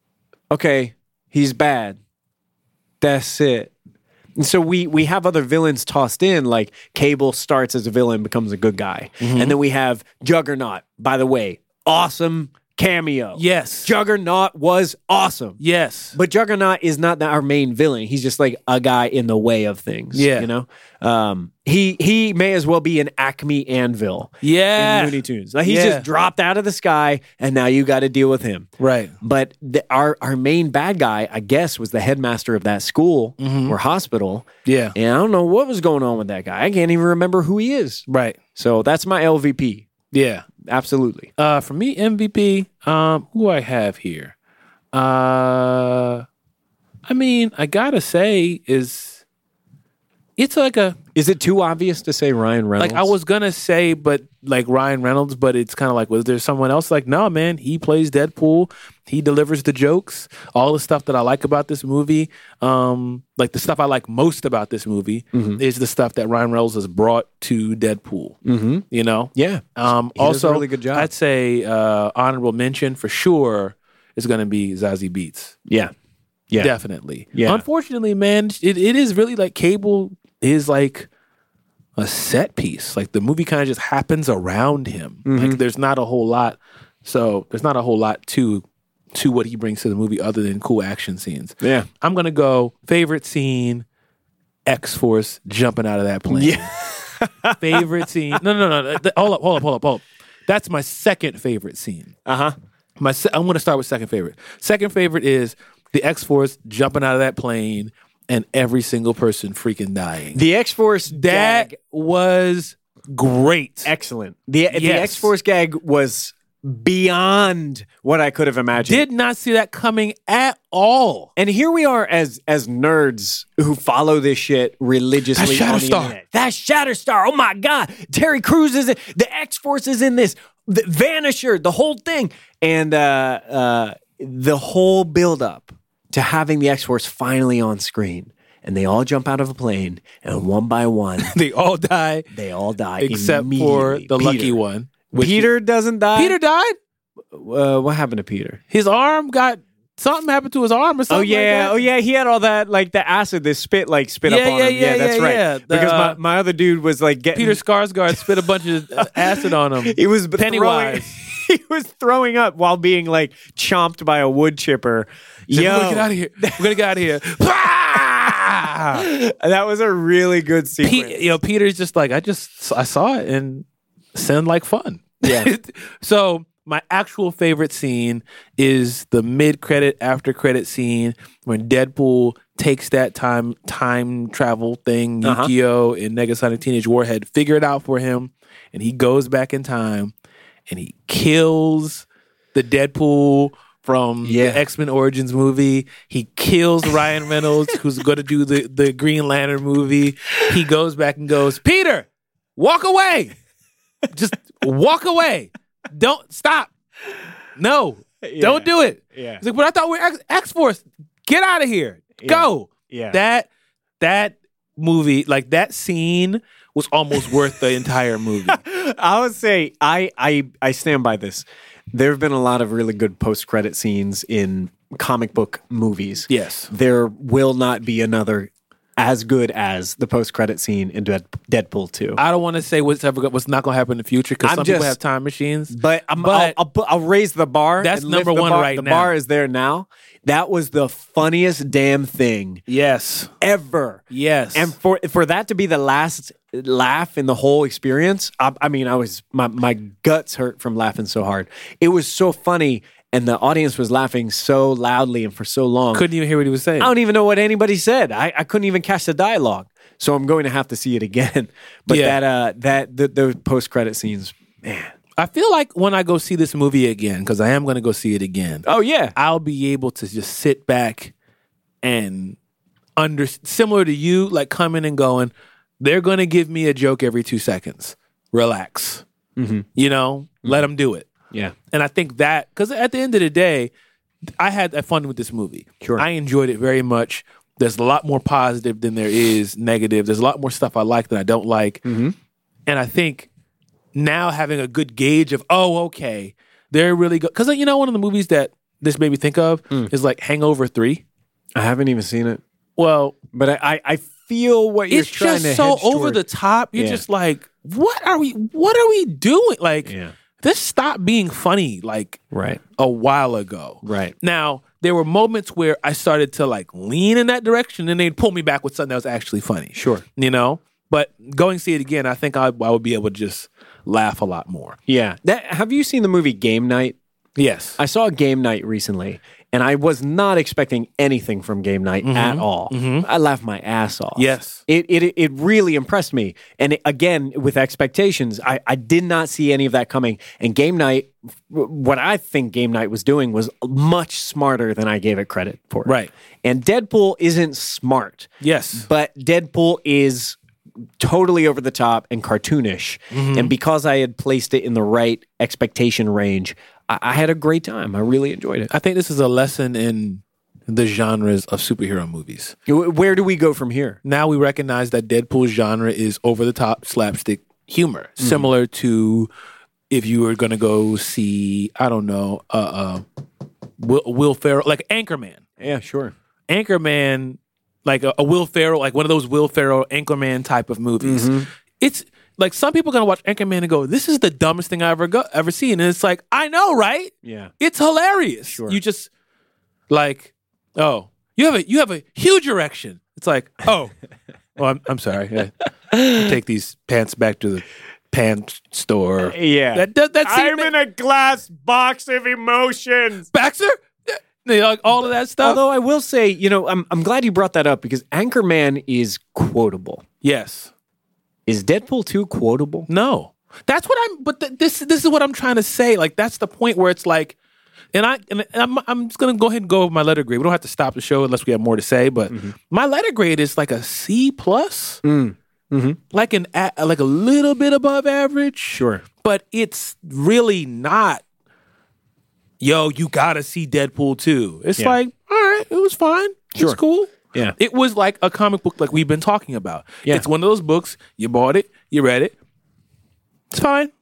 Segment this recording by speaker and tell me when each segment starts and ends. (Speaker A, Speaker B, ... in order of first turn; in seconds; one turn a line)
Speaker A: 0.5-2.0
Speaker A: 3.0-3.7
Speaker A: 4.4-15.6
Speaker B: 9.2-9.6
Speaker B: 13.4-13.9
Speaker B: 15.6-16.2
Speaker A: 16.1-28.7
Speaker B: 20.1-20.5
Speaker B: 24.4-26.1
Speaker B: 28.8-29.1
Speaker A: 29.2-38.0
Speaker B: 33.4-33.8
Speaker B: 34.6-35.0
Speaker B: 38.1-38.4
Speaker A: 38.6-39.9
Speaker B: 40.1-40.5
Speaker A: 40.6-41.3
Speaker B: 41.4-44.3
Speaker B: 44.9-46.2
Speaker B: 47.1-49.2
Speaker B: 50.4-51.0
Speaker A: 51.1-53.2
Speaker B: 52.8-68.4
Speaker A: 65.3-65.6
Speaker A: 68.5-71.1
Speaker B: 68.9-75.6
Speaker A: 75.7-75.9
Speaker B: 76.6-81.1
Speaker A: 77.3-77.6
Speaker B: 82.0-93.8
Speaker A: 85.2-85.6
Speaker A: 91.6-91.9
Speaker B: 94.7-96.7
Speaker A: 96.3-97.8
Speaker B: 97.6-102.2
Speaker A: 102.3-102.5
Speaker B: 103.0-110.4
Speaker A: 110.3-111.7
Speaker B: 111.1-113.9
Speaker A: 113.8-119.0
Speaker B: 114.7-115.3
Speaker B: 118.8-121.3
Speaker A: 121.4-141.3
Speaker B: 125.3-126.2
Speaker B: 141.2-142.2
Speaker A: 142.3-144.6
Speaker B: 143.0-145.5
Speaker A: 145.1-146.4
Speaker B: 146.2-146.8
Speaker A: 147.3-148.6
Speaker B: 148.7-151.8
Speaker A: 151.1-166.8
Speaker B: 154.3-156.2
Speaker B: 157.3-161.2
Speaker B: 165.5-169.1
Speaker A: 168.0-171.3
Speaker B: 170.8-190.1
Speaker A: 175.2-175.5
Speaker A: 185.2-185.5
Speaker B: 190.7-203.3
Speaker A: 194.2-194.6
Speaker B: 204.1-206.7
Speaker B: 207.6-213.5
Speaker A: 208.2-209.4
Speaker A: 212.2-213.2
Speaker B: 214.0-218.6
Speaker A: 218.5-232.2
Speaker B: 226.3-226.7
Speaker B: 232.2-236.6
Speaker A: 234.4-235.0
Speaker A: 235.7-242.6
Speaker B: 237.8-239.1
Speaker B: 242.7-243.3
Speaker A: 243.4-256.1
Speaker B: 244.1-244.7
Speaker B: 255.9-256.9
Speaker A: 256.8-264.9
Speaker B: 261.9-262.2
Speaker B: 265.2-271.1
Speaker A: 268.6-269.1
Speaker B: 271.8-272.4
Speaker B: 273.0-279.0
Speaker A: 279.4-279.7
Speaker B: 279.8-281.1
Speaker B: 281.7-283.7
Speaker B: 284.4-291.9
Speaker A: 291.9-292.1
Speaker B: 292.7-293.3
Speaker B: 293.9-301.0
Speaker A: 301.6-302.4
Speaker B: 302.8-303.2
Speaker A: 303.3-306.2
Speaker B: 304.9-312.2
Speaker A: 306.8-307.0
Speaker A: 309.9-310.1
Speaker A: 312.3-312.6
Speaker B: 312.8-324.8
Speaker A: 313.8-314.1
Speaker A: 319.7-320.0
Speaker A: 324.9-327.0
Speaker B: 327.4-327.8
Speaker A: 327.8-350.4
Speaker B: 332.0-333.1
Speaker B: 334.2-334.6
Speaker B: 345.9-346.1
Speaker B: 348.4-348.9
Speaker A: 351.0-358.7
Speaker B: 353.1-353.5
Speaker B: 358.7-362.6
Speaker A: 362.7-364.0
Speaker B: 364.0-369.3
Speaker A: 368.2-368.5
Speaker B: 369.9-373.1
Speaker B: 373.8-375.4
Speaker A: 375.6-376.1
Speaker B: 376.5-389.1
Speaker A: 381.0-381.5
Speaker A: 387.2-387.5
Speaker A: 388.5-388.8
Speaker B: 389.9-393.9
Speaker B: 394.6-400.7
Speaker A: 399.3-403.3
Speaker B: 403.3-405.6
Speaker A: 405.4-410.0
Speaker B: 410.2-410.7
Speaker A: 411.5-412.9
Speaker B: 412.9-417.4
Speaker B: 417.9-425.0
Speaker A: 425.0-426.0
Speaker B: 426.1-431.2
Speaker A: 428.7-429.0
Speaker B: 432.6-442.4
Speaker B: 443.5-443.9